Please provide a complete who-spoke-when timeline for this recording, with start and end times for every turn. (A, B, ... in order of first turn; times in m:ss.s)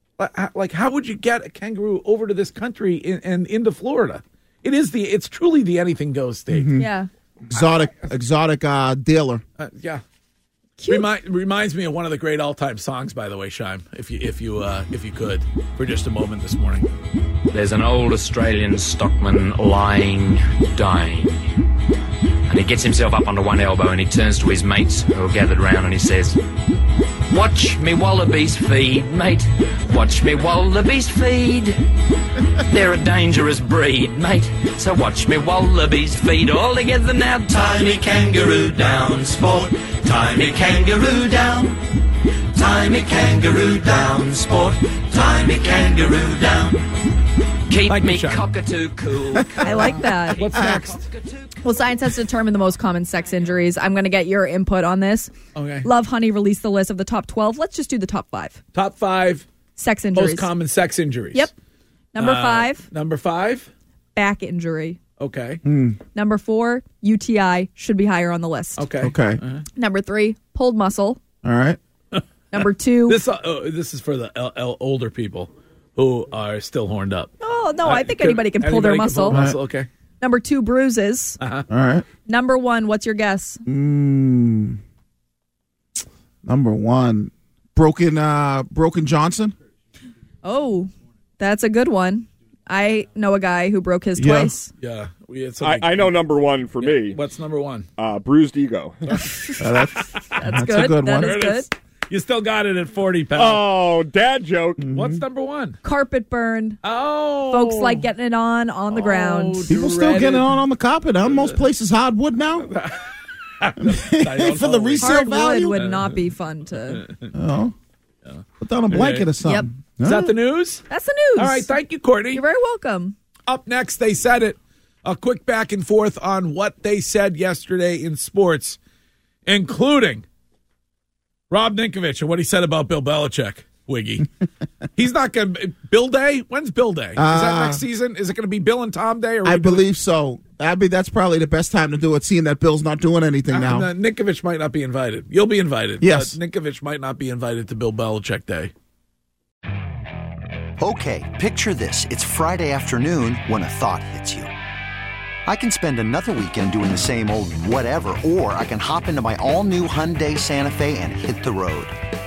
0:00.2-0:06.8 A
0:06.5-0:06.9 B
0:06.8-0:07.1 C
0:07.5-0:09.4 B
0:09.6-0:10.0 A
0:10.8-0:11.1 C
0:10.9-0:16.9 A
0:17.5-0:21.5 D
0:22.5-0:26.4 D
0:27.3-0:31.8 D
0:32.7-0:41.8 D
0:42.5-0:46.9 D
0:47.7-0:49.7 D
0:47.8-0:48.5 A
0:49.6-0:50.5 C
0:49.7-0:51.0 A
0:50.5-0:51.0 D
0:51.6-0:55.3 C
0:55.6-0:55.9 A
0:55.8-0:58.6 C
0:58.7-0:59.5 A
0:59.8-1:00.5 C
1:00.1-1:01.5 A
1:02.1-1:02.9 C
1:02.2-1:03.7 A
1:04.2-1:05.0 C
1:05.2-1:05.6 A
1:05.6-1:06.0 B
1:06.2-1:08.9 C
1:08.8-1:09.6 A
1:09.0-1:09.4 B
1:09.8-1:11.2 C
1:11.4-1:11.8 B
1:12.5-1:13.2 C
1:13.1-1:17.3 A
1:17.4-1:19.5 C
1:17.8-1:19.9 A
1:19.3-1:19.6 B
1:20.2-1:21.4 C
1:21.4-1:21.7 A
1:21.7-1:22.1 B
1:22.3-1:23.6 C
1:23.7-1:24.8 B
1:26.4-1:29.5 B
1:30.4-1:34.7 C
1:34.2-1:34.6 B
1:34.8-1:36.1 A
1:35.6-1:37.2 E
1:36.8-1:37.9 A
1:38.0-1:39.2 E
1:39.3-1:39.6 C
1:39.6-1:41.5 B
1:40.4-1:41.7 C
1:41.0-1:43.7 A
1:43.4-1:44.9 E
1:44.8-1:45.2 B
1:44.9-1:45.8 A
1:45.8-1:46.8 C
1:46.8-1:48.1 A
1:47.5-1:49.7 C
1:48.9-1:50.6 A
1:49.7-1:52.8 B
1:53.6-1:56.2 A
1:53.8-1:55.8 B
1:55.0-1:57.0 C
1:56.9-1:57.3 A
1:57.3-1:57.7 B
1:58.3-1:59.3 A
1:58.6-2:00.3 B
1:59.4-1:59.7 C
2:00.0-2:00.8 A
2:00.9-2:01.7 C
2:01.4-2:02.4 A
2:02.3-2:03.2 C
2:03.5-2:08.8 A
2:09.5-2:10.2 A
2:11.5-2:14.3 A
2:15.0-2:19.8 A
2:17.2-2:17.8 B
2:19.4-2:23.9 B
2:23.5-2:28.7 A
2:26.0-2:26.4 B
2:30.8-2:34.5 F
2:35.4-2:42.0 F